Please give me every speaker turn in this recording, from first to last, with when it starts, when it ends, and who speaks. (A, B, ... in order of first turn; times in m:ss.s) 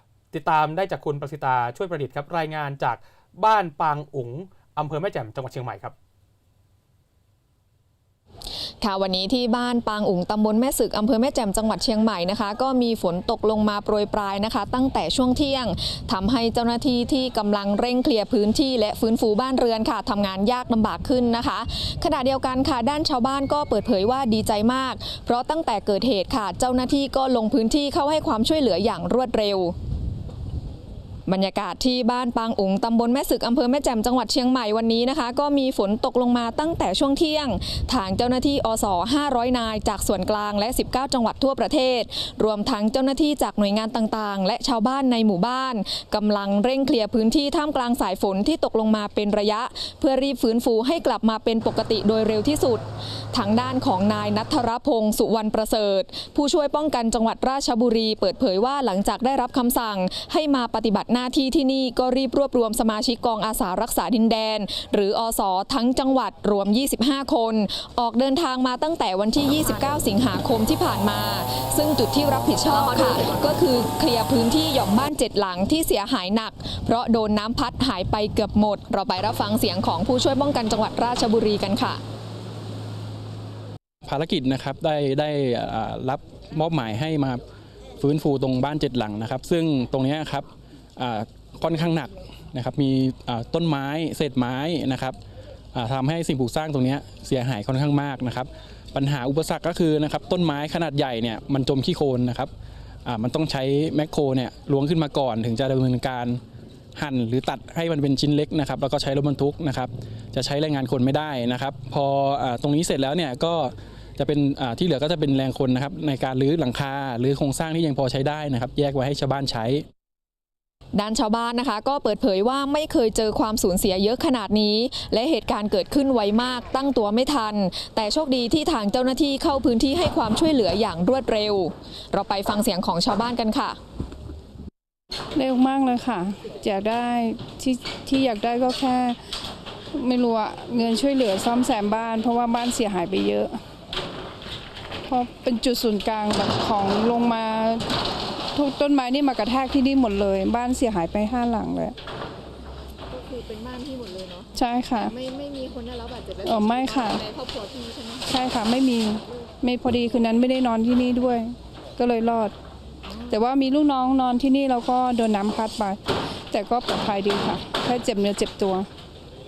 0:00.3-0:05.9 A
0:08.8-0:29.7 B
0:31.3-1:22.0 B
1:24.0-1:27.4 C
1:28.0-1:35.2 C
1:35.7-1:42.5 C
1:43.0-1:46.4 C
1:47.0-1:59.8 C
2:00.9-2:13.8 B
2:15.4-2:19.2 D
2:19.9-2:23.6 D
2:25.1-2:27.8 D
2:28.5-2:31.9 D
2:33.1-2:34.4 E
2:34.5-2:35.2 D
2:35.1-2:38.2 E
2:36.3-2:37.3 D
2:38.2-2:42.5 D
2:43.2-2:46.0 D
2:46.5-2:48.9 D